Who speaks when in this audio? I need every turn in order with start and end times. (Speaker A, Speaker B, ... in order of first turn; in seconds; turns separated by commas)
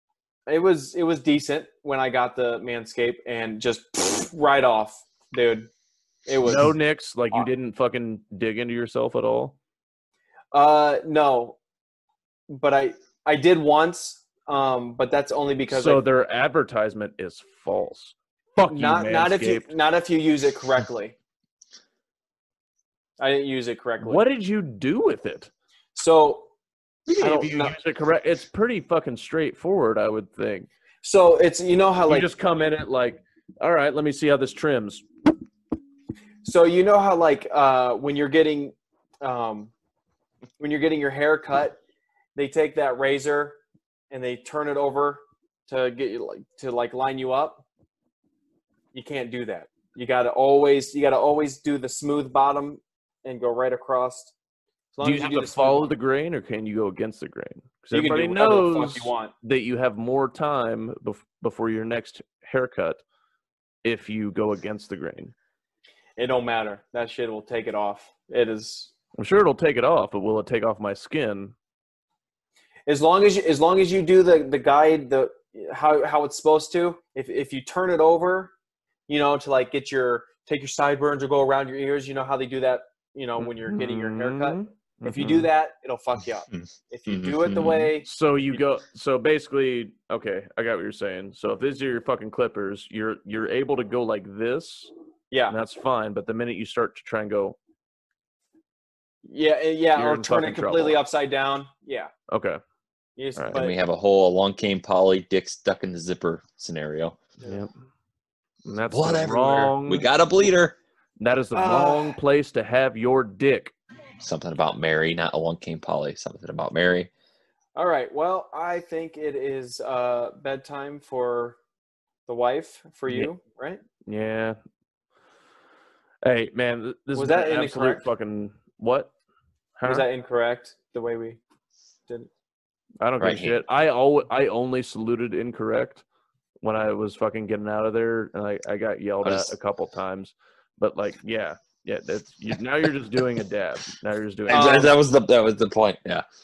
Speaker A: 0.5-5.7, Speaker A: 6.3-6.8, Speaker B: 6.5-9.6, Speaker A: 10.5-11.6, Speaker A: 12.5-16.0, Speaker B: 15.7-19.8, Speaker A: 18.7-21.1, Speaker A: 23.2-24.2, Speaker B: 24.0-25.5, Speaker A: 25.9-26.5, Speaker B: 27.1-30.7, Speaker A: 27.2-27.8, Speaker A: 31.0-32.3, Speaker B: 32.1-35.1, Speaker A: 36.4-39.7, Speaker A: 40.6-41.8, Speaker A: 42.4-43.6, Speaker A: 44.1-47.6, Speaker A: 48.9-54.3, Speaker A: 54.9-55.9, Speaker B: 55.0-63.0, Speaker A: 57.9-59.3, Speaker B: 63.8-65.3, Speaker A: 66.2-68.9, Speaker B: 69.2-71.5, Speaker A: 72.9-78.5, Speaker A: 79.1-88.1, Speaker B: 83.4-85.5, Speaker C: 86.5-87.9, Speaker B: 88.0-94.9, Speaker A: 95.3-95.6, Speaker B: 95.5-97.6, Speaker A: 99.2-102.1, Speaker B: 100.0-101.0, Speaker B: 102.3-102.6, Speaker A: 103.2-103.8, Speaker C: 103.5-107.2, Speaker B: 107.4-107.7, Speaker B: 108.7-110.1, Speaker C: 108.9-110.8, Speaker B: 111.2-113.7, Speaker A: 111.5-112.2, Speaker C: 114.2-117.1, Speaker A: 117.8-121.6, Speaker A: 122.3-123.8, Speaker B: 124.1-124.6, Speaker B: 126.2-129.1, Speaker A: 127.1-128.1, Speaker B: 129.8-130.1, Speaker A: 129.8-131.4, Speaker B: 133.0-136.0, Speaker C: 133.2-133.6, Speaker B: 136.6-144.9, Speaker C: 139.2-139.5, Speaker A: 144.5-144.9, Speaker C: 144.5-146.2